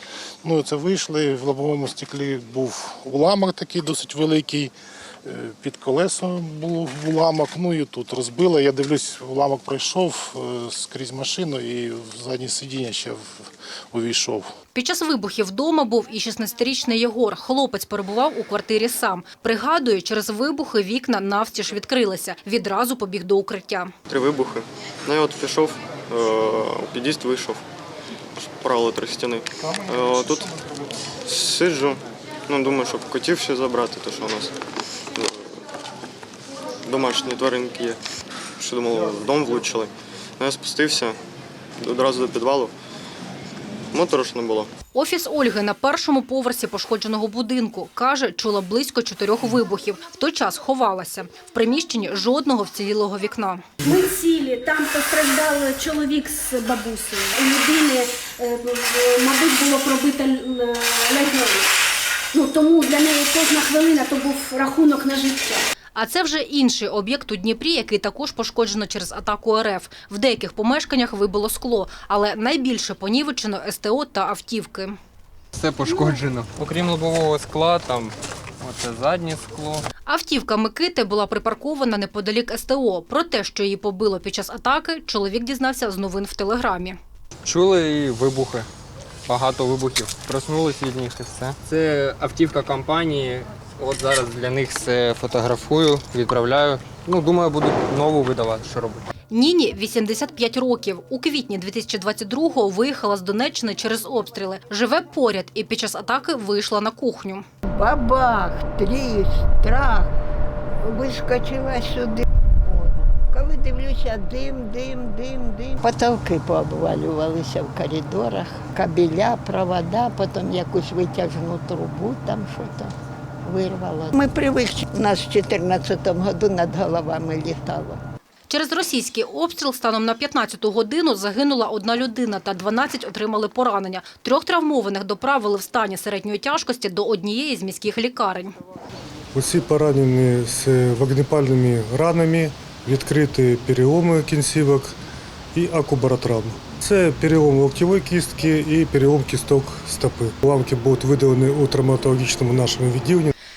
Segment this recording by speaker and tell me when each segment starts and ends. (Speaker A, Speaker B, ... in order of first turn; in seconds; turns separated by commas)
Speaker A: 0.4-4.7, Speaker A: 5.2-13.2, Speaker A: 13.9-14.5, Speaker B: 14.7-23.9, Speaker C: 24.1-27.6, Speaker C: 28.4-30.6, Speaker C: 31.2-34.5, Speaker C: 35.1-35.6, Speaker C: 36.9-38.0, Speaker C: 38.6-41.2, Speaker C: 41.8-42.7, Speaker C: 43.9-44.7, Speaker B: 44.9-53.7, Speaker D: 53.8-61.7, Speaker D: 62.3-65.6, Speaker B: 66.0-75.0, Speaker E: 75.5-79.8, Speaker B: 80.1-87.0, Speaker E: 87.4-88.7, Speaker E: 89.3-99.0, Speaker B: 99.3-107.5, Speaker F: 107.7-110.1, Speaker F: 110.8-122.9, Speaker F: 123.5-128.0, Speaker B: 128.5-138.5, Speaker G: 139.3-145.0, Speaker G: 145.5-153.3